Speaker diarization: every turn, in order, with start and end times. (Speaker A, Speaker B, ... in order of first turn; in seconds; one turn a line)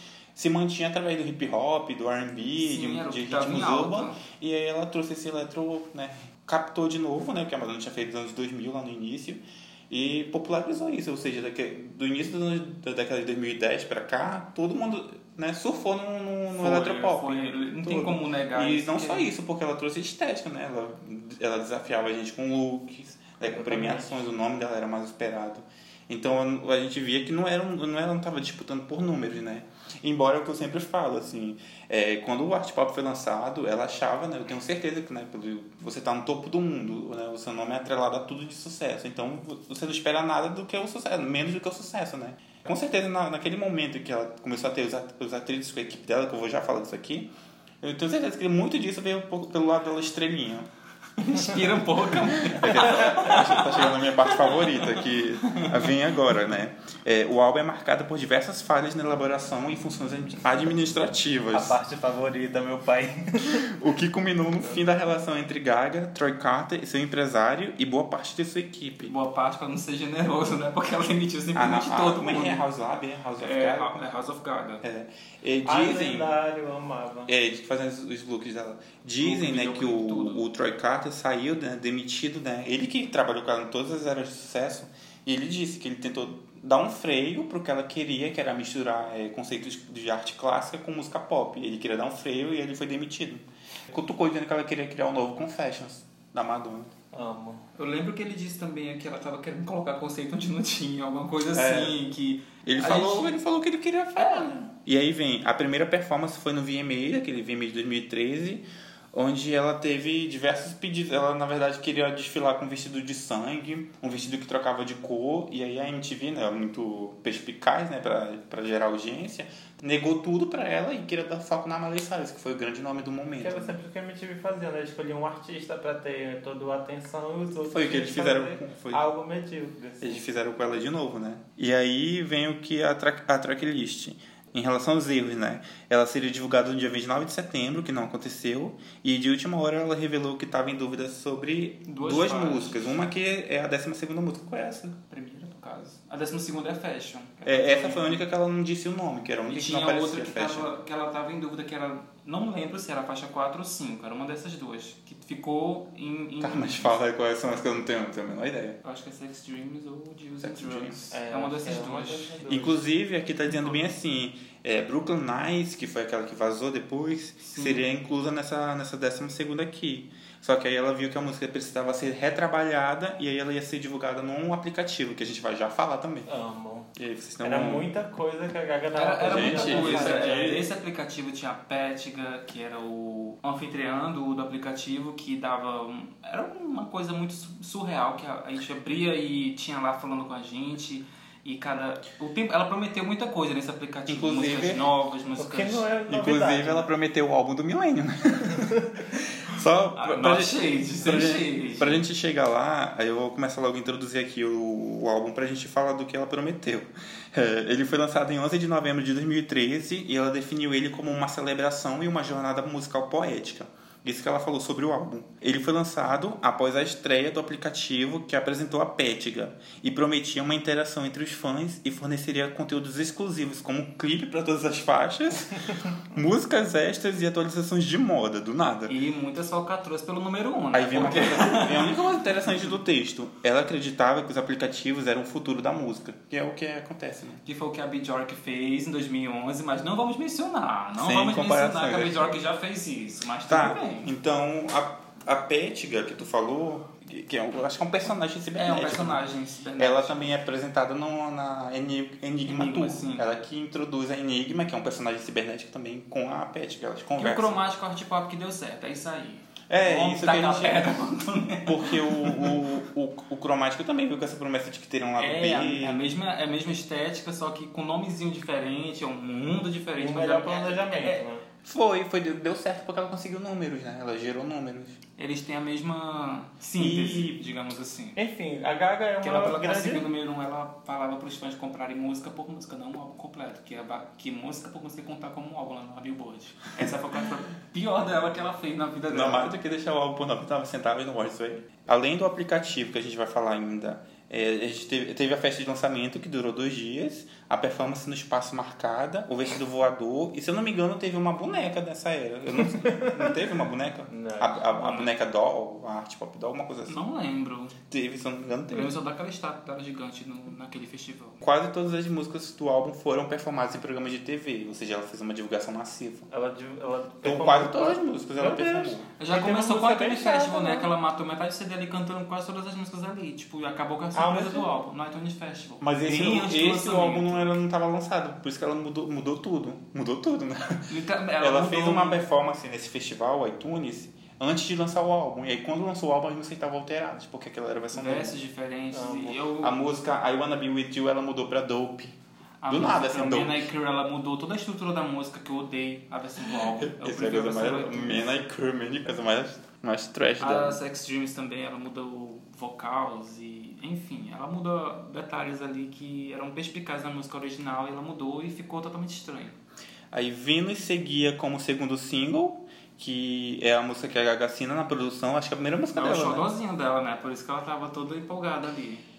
Speaker A: 0.3-50.7
Speaker B: 2.6-4.2
Speaker B: 16.5-19.3
Speaker C: 23.4-24.3
Speaker B: 51.2-55.9
Speaker A: 52.4-61.8
Speaker C: 61.5-63.7
Speaker A: 63.4-69.1
Speaker B: 69.0-72.7
Speaker A: 71.5-74.0
Speaker B: 73.4-74.8
Speaker A: 74.8-76.3
Speaker C: 75.7-77.3
Speaker A: 77.3-96.9
Speaker B: 79.2-80.4
Speaker C: 97.1-97.6
Speaker B: 97.8-103.4
Speaker A: 101.5-102.0
Speaker A: 102.6-123.7
Speaker B: 104.2-104.6
Speaker C: 123.4-130.2
Speaker A: 127.7-129.0
Speaker A: 130.0-145.0
Speaker B: 141.9-142.9
Speaker B: 145.1-148.2
Speaker A: 147.4-150.7
Speaker B: 149.5-157.0
Speaker A: 156.4-158.8
Speaker B: 158.8-162.4
Speaker A: 160.4-161.1
Speaker C: 161.1-162.8
Speaker A: 162.5-176.3
Speaker B: 163.5-163.8
Speaker B: 167.4-167.9
Speaker C: 176.3-176.9
Speaker A: 177.0-177.9
Speaker C: 177.4-180.7
Speaker B: 178.9-195.9
Speaker A: 179.3-180.4
Speaker A: 194.1-194.9
Speaker C: 195.4-196.9
Speaker A: 196.1-198.8
Speaker C: 198.5-199.1
Speaker A: 199.4-228.9
Speaker B: 200.0-202.0
Speaker B: 228.9-232.0
Speaker A: 230.7-237.4
Speaker B: 237.5-244.1
Speaker A: 241.0-242.4
Speaker A: 243.5-249.2
Speaker B: 248.6-250.3
Speaker A: 249.8-257.6
Speaker B: 252.5-253.2
Speaker B: 257.2-262.6
Speaker A: 259.7-260.9
Speaker A: 261.7-266.0
Speaker B: 265.2-271.2
Speaker C: 270.0-271.4
Speaker A: 271.6-275.0
Speaker B: 275.2-278.2
Speaker A: 276.8-277.4
Speaker C: 278.2-280.1
Speaker B: 279.2-289.5
Speaker A: 289.1-307.0
Speaker C: 302.8-303.2
Speaker C: 304.1-305.1
Speaker B: 306.9-307.8
Speaker A: 307.9-308.9
Speaker B: 308.7-311.4
Speaker A: 311.4-316.3
Speaker C: 316.3-320.9
Speaker A: 317.2-319.1
Speaker B: 319.2-327.6
Speaker C: 324.1-324.7
Speaker A: 325.8-338.4
Speaker B: 330.9-332.2
Speaker B: 337.9-339.8
Speaker C: 338.9-339.4
Speaker A: 339.6-342.2
Speaker B: 342.6-348.2
Speaker A: 342.7-343.7
Speaker A: 346.8-350.8
Speaker B: 350.4-359.6
Speaker A: 360.1-366.5
Speaker B: 365.9-369.0